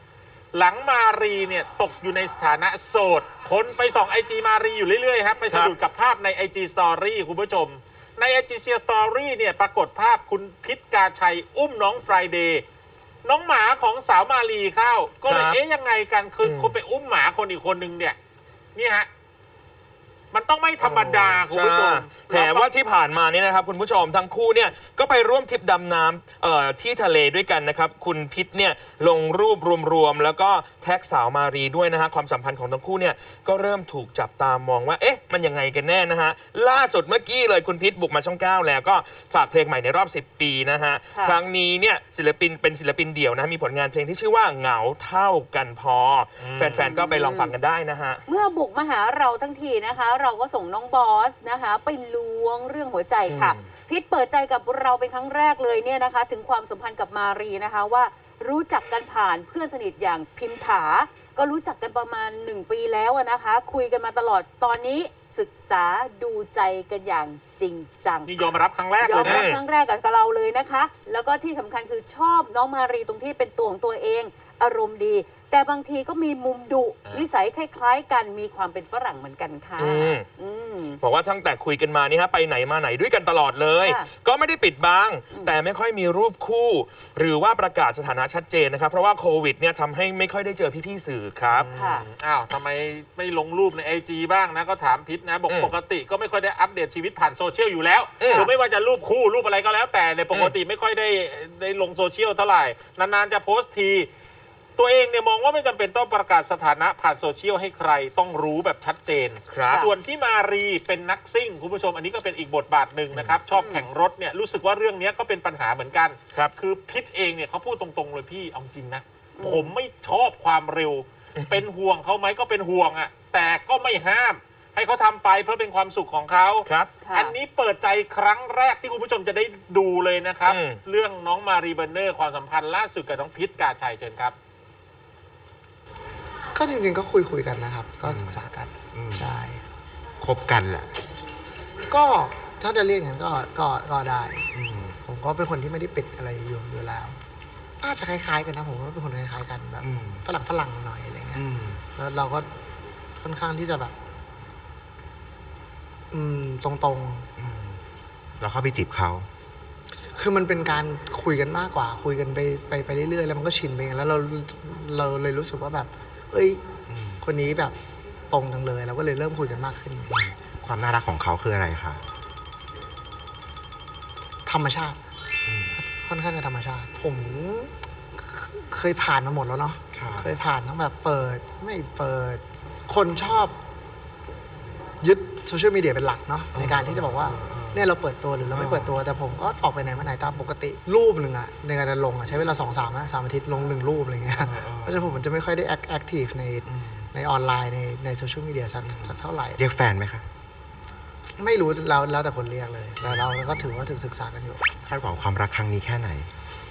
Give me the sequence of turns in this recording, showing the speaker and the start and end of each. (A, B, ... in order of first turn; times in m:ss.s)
0:00.5-0:12.6 A
0:13.2-0:18.2 A
0:15.3-0:15.6 B
0:16.4-0:16.7 B
0:18.8-0:19.1 A
0:20.3-0:22.7 A
0:20.8-0:48.2 B
0:46.4-0:46.9 A
0:46.8-0:47.5 C
0:48.3-1:08.3 C
0:53.3-0:53.6 B
1:08.3-1:09.5 A
1:09.0-1:21.0 C
1:09.2-1:09.6 B
1:19.8-1:20.3 B
1:21.0-1:31.7 B
1:31.5-1:44.1 A
1:31.8-1:32.1 C
1:38.2-1:38.5 B
1:44.8-2:14.4 A
1:49.5-1:49.8 B
1:53.1-1:53.4 B
1:53.5-1:53.8 C
2:06.7-2:07.0 B
2:07.0-2:07.3 C
2:10.4-2:10.8 B
2:16.5-2:19.6 D
2:18.0-2:19.3 E
2:20.2-2:20.9 E
2:21.9-2:24.5 D
2:24.5-2:25.0 E
2:25.0-2:27.2 D
2:27.8-2:31.4 D
2:29.8-2:30.2 E
2:31.3-2:31.8 E
2:32.0-2:32.5 D
2:33.2-2:34.0 D
2:36.1-2:37.3 D
2:37.4-2:37.8 E
2:38.4-2:39.3 E
2:40.2-2:46.7 D
2:46.9-2:47.2 E
2:47.2-2:47.8 D
2:48.3-2:50.1 D
2:50.1-2:52.0 E
2:54.5-2:55.0 D
2:55.5-2:55.8 E
2:55.8-3:03.6 D
2:59.9-3:00.3 E
3:05.0-3:19.6 D
3:06.5-3:07.9 E
3:08.5-3:09.0 E
3:14.4-3:15.2 E
3:16.7-3:17.1 E
3:18.8-3:20.3 E
3:21.4-3:24.6 D
3:23.0-3:24.0 E
3:24.8-3:26.3 E